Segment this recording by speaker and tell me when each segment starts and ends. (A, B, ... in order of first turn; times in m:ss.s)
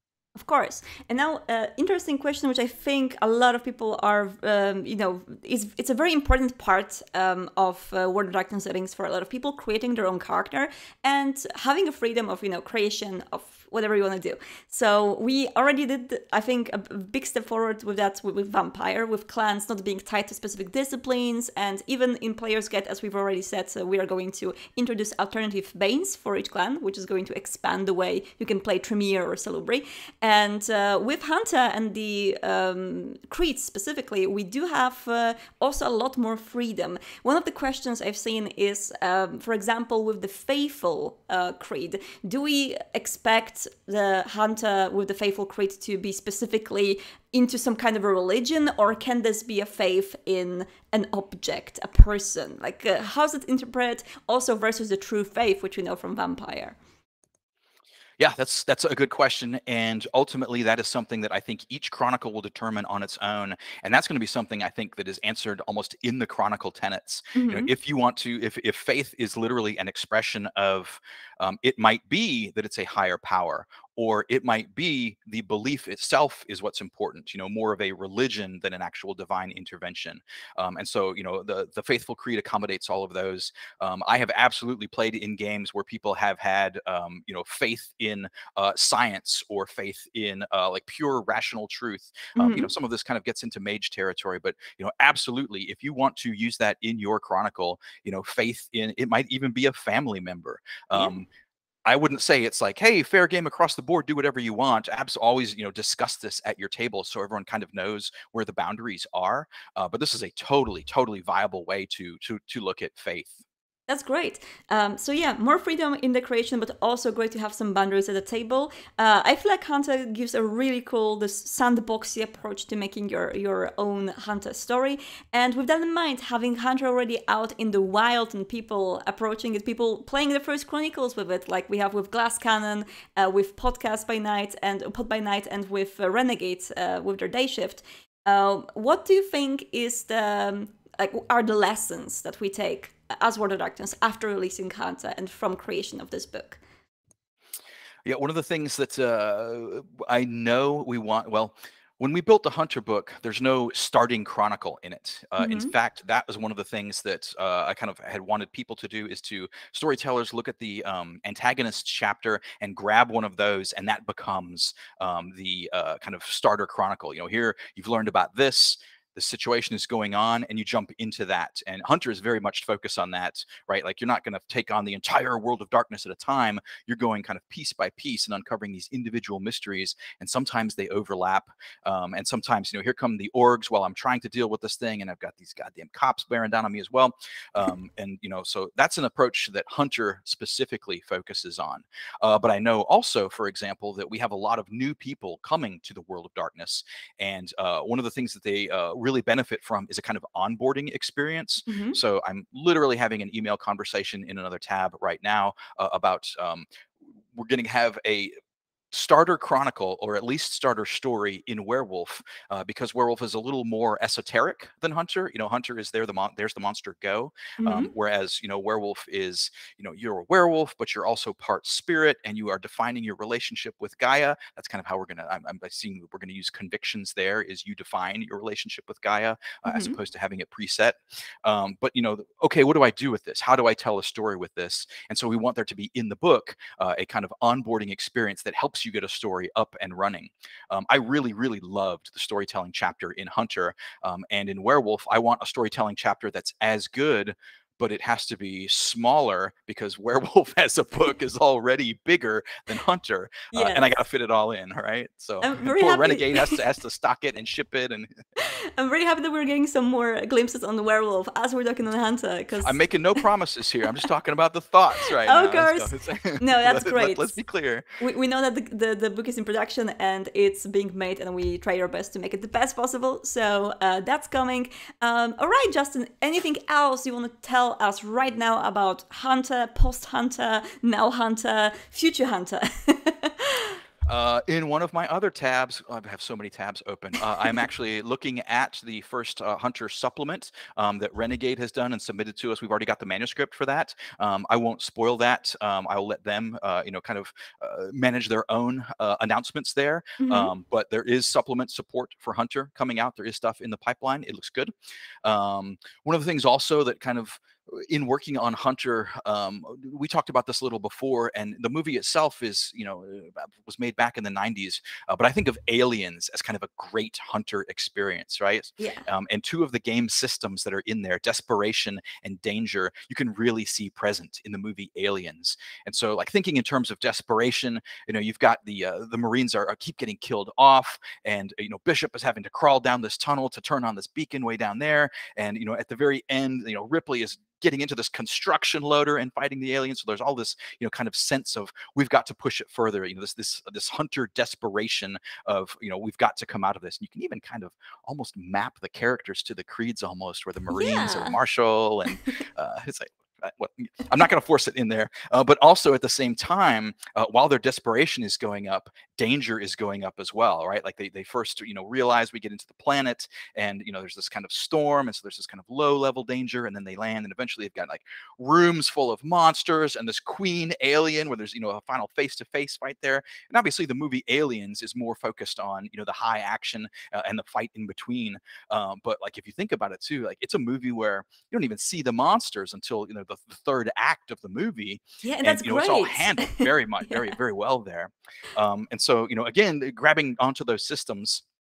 0:00.4-0:56.8 A
0:58.2-1:41.3 B
1:07.3-1:07.7 A
1:32.4-1:32.7 A
1:41.8-1:53.4 B
1:53.9-2:26.6 A
2:28.0-3:26.6 B
2:35.4-2:35.7 A
3:21.7-3:22.0 A
3:27.3-3:28.3 B
3:28.9-4:18.1 B
3:37.6-3:37.9 A
3:49.6-3:50.0 A
4:13.5-4:13.9 A
4:15.4-4:16.6 A
4:18.4-4:22.8 A
4:22.6-4:28.0 B
4:25.0-4:27.3 A
4:28.0-4:43.8 A
4:44.0-5:04.7 B
5:00.2-5:00.5 A
5:05.2-6:31.4 B
5:18.8-5:19.0 A
5:50.7-5:51.4 A
6:25.2-6:27.3 A